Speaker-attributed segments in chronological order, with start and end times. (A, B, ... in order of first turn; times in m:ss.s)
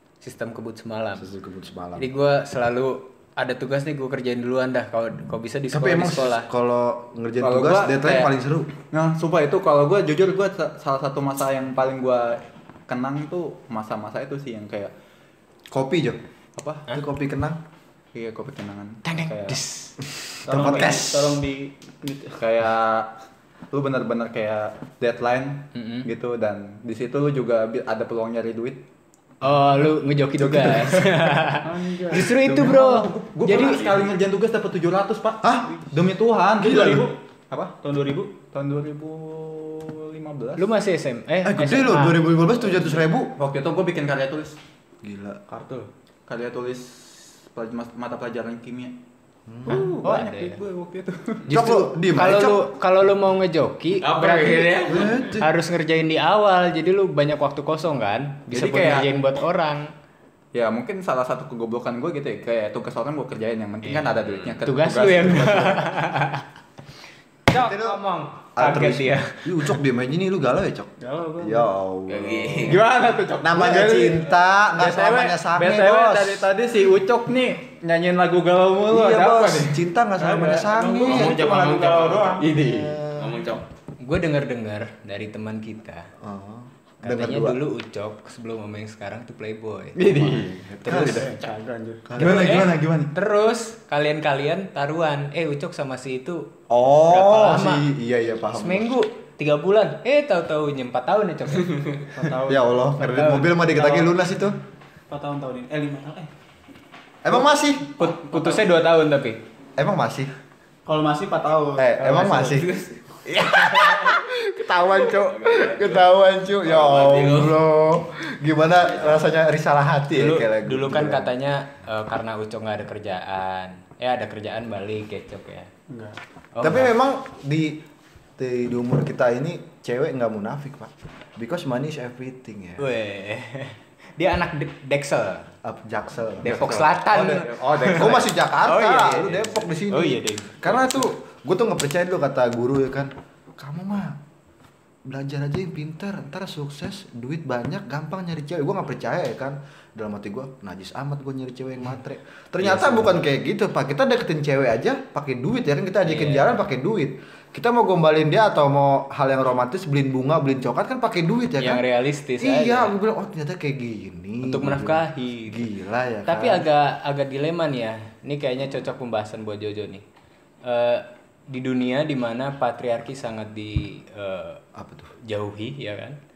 0:00.2-0:01.3 A
0:01.2-0:02.1 B
0:02.0-0:06.5 A
0:05.7-0:08.7 B
0:07.4-0:08.3 C
0:08.8-0:14.9 C
0:15.7-0:16.2 B
0:16.6-0:16.8 C
0:16.9-0:17.6 B
0:18.1-0:19.6 C
0:19.0-0:20.0 A
0:20.2-0:21.4 B
0:20.4-0:22.4 D
0:22.4-0:23.1 C
0:23.7-0:28.8 C
0:25.7-0:26.1 A
0:29.4-0:33.8 A
0:30.5-0:31.0 B
0:31.6-0:32.4 D
0:32.2-0:37.7 C
0:33.5-0:34.1 E
0:35.4-0:35.7 B
0:36.6-0:37.2 D
0:36.7-0:37.0 B
0:37.8-0:38.3 D
0:38.5-0:40.6 C
0:40.6-0:42.2 A
0:41.4-0:43.4 B
0:42.7-0:44.6 C
0:45.0-0:45.5 B
0:45.6-0:45.8 D
0:46.3-0:49.0 C
0:49.5-0:49.9 B
0:49.7-0:51.4 C
0:49.7-0:50.5 D
0:50.0-0:50.6 A
0:51.5-0:59.9 A
0:51.5-0:52.7 B
0:54.0-0:55.3 E
0:54.9-0:55.5 B
0:58.5-0:59.1 C
1:00.5-1:05.9 C
1:04.2-1:04.6 E
1:04.6-1:06.4 A
1:07.5-1:09.5 A
1:07.6-1:12.8 B
1:11.0-1:11.6 D
1:12.1-1:12.8 E
1:12.7-1:19.8 C
1:13.4-1:16.5 B
1:18.9-1:21.9 B
1:20.2-1:22.5 D
1:21.0-1:22.5 E
1:22.4-1:23.0 C
1:22.6-1:23.4 B
1:23.1-1:23.6 E
1:24.0-1:26.1 A
1:26.2-1:27.6 B
1:27.0-1:30.0 A
1:30.0-1:31.3 C
1:30.2-1:31.3 B
1:31.0-1:32.1 D
1:32.1-1:32.9 B
1:32.1-1:33.1 C
1:32.2-1:36.5 A
1:36.7-1:38.9 B
1:37.1-1:37.9 A
1:38.6-1:41.8 A
1:42.1-1:44.1 D
1:42.5-1:44.6 B
1:45.1-1:46.3 D
1:47.2-1:47.9 B
1:48.0-1:49.4 A
1:48.0-1:48.7 D
1:49.8-1:50.3 B
1:50.8-1:52.8 D
1:51.8-1:52.7 B
1:52.0-1:52.8 A
1:53.2-2:01.3 B
1:55.1-1:56.1 E
1:56.6-1:57.6 E
1:58.8-1:59.2 E
2:00.1-2:05.7 A
2:05.9-2:06.2 D
2:06.6-2:06.9 A
2:06.6-2:07.8 B
2:08.4-2:12.9 B
2:12.8-2:15.5 A
2:15.6-2:24.2 B
2:16.4-2:20.7 A
2:16.5-2:18.3 C
2:25.0-2:41.8 B
2:32.6-2:33.1 C
2:36.0-2:36.5 A
2:41.6-2:42.9 A
2:42.4-2:46.6 B
2:44.4-2:45.6 A
2:46.3-2:50.0 A
2:50.6-2:54.6 A
2:54.8-2:55.1 B
2:55.2-2:56.2 A